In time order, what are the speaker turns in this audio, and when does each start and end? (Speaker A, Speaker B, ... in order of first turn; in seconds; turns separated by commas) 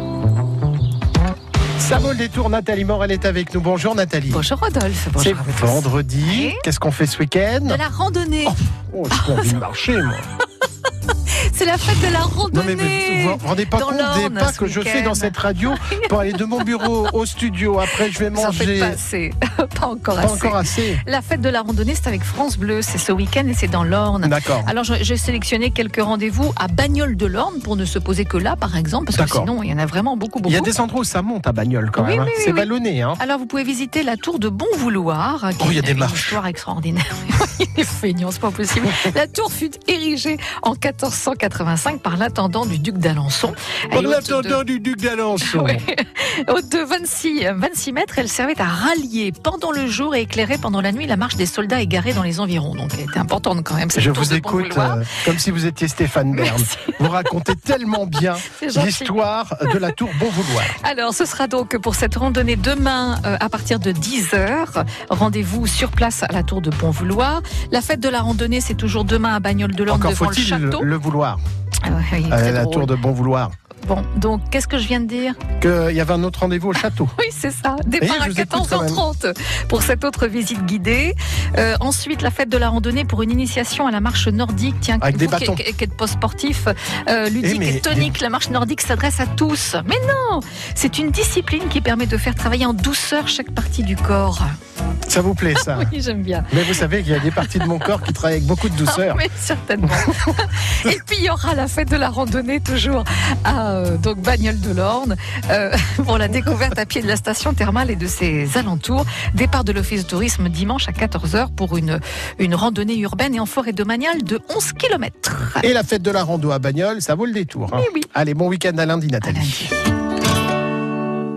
Speaker A: 1.8-4.4, Speaker B: 4.3-6.7, Speaker A: 5.2-7.8, Speaker B: 7.7-8.6, Speaker A: 8.5-10.3, Speaker B: 9.1-9.6, Speaker B: 11.1-16.9, Speaker A: 12.5-19.0, Speaker B: 17.9-30.7, Speaker A: 20.2-21.0, Speaker A: 24.2-24.7, Speaker A: 29.1-29.5, Speaker A: 30.5-33.2, Speaker B: 32.0-44.6, Speaker A: 35.6-36.4, Speaker A: 43.9-45.8, Speaker B: 45.4-55.2, Speaker A: 54.0-60.8, Speaker B: 56.3-57.0, Speaker B: 58.5-60.0, Speaker B: 60.8-70.9, Speaker A: 69.9-71.4, Speaker B: 71.8-73.0, Speaker A: 72.3-73.5, Speaker B: 73.8-75.4, Speaker A: 75.6-77.1, Speaker B: 77.2-94.5, Speaker A: 78.0-79.0, Speaker A: 85.0-85.6, Speaker A: 87.4-88.1, Speaker A: 95.1-95.9, Speaker B: 95.6-97.9, Speaker A: 96.5-99.2, Speaker B: 98.7-115.7, Speaker A: 115.6-119.7, Speaker B: 117.8-118.1, Speaker B: 119.2-119.9